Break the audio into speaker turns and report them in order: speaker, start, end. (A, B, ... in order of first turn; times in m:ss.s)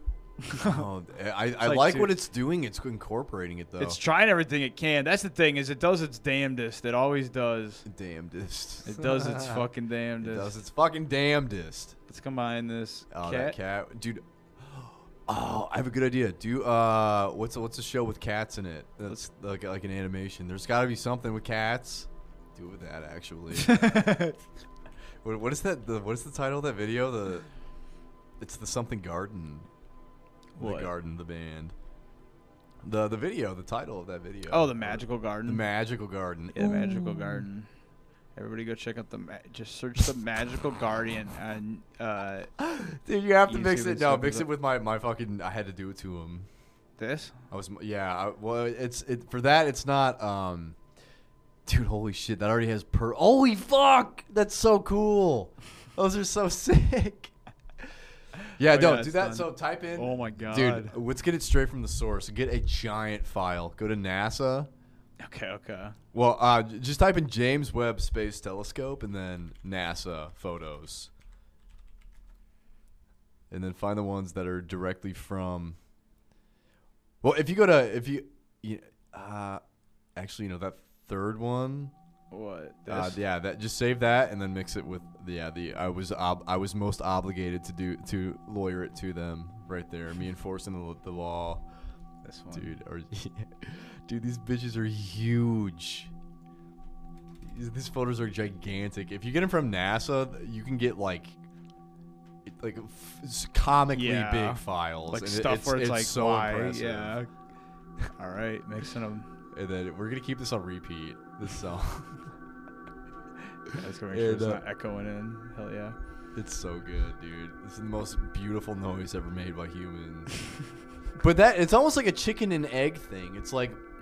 0:00.4-0:00.8 A
0:00.6-0:04.0 B
0:01.6-0:02.2 A
0:03.8-0:07.9 A
0:07.8-0:09.7 B
0:08.8-0:10.6 A
0:10.2-0:12.0 B
0:12.1-0:13.6 A
0:13.1-0:24.3 B
0:23.6-0:24.4 A
0:25.2-0:27.5 B
0:28.4-0:29.7 B
0:30.6-0:30.9 A
0:30.6-0:31.7 B
0:32.8-0:37.1 B
0:34.5-0:35.6 A
0:36.5-0:37.7 A
0:38.4-0:42.5 A
0:42.6-0:46.5 B
0:43.5-0:44.5 A
0:47.0-0:47.4 A
0:47.5-0:50.8 B
0:51.7-0:57.9 B
0:58.4-1:01.0 A
0:58.6-1:04.7 B
1:05.2-1:06.0 A
1:06.1-1:11.1 B
1:13.5-1:15.8 B
1:17.2-1:19.6 B
1:20.2-1:21.9 B
1:22.3-1:23.2 A
1:22.9-1:31.7 B
1:32.2-1:32.7 A
1:32.5-1:36.1 B
1:37.4-1:41.4 B
1:42.4-1:47.2 B
1:44.0-1:47.3 A
1:48.2-1:49.3 A
1:49.5-1:52.2 B
1:53.7-1:54.6 B
1:53.8-1:56.0 A
1:56.4-2:00.4 B
2:01.2-2:03.8 B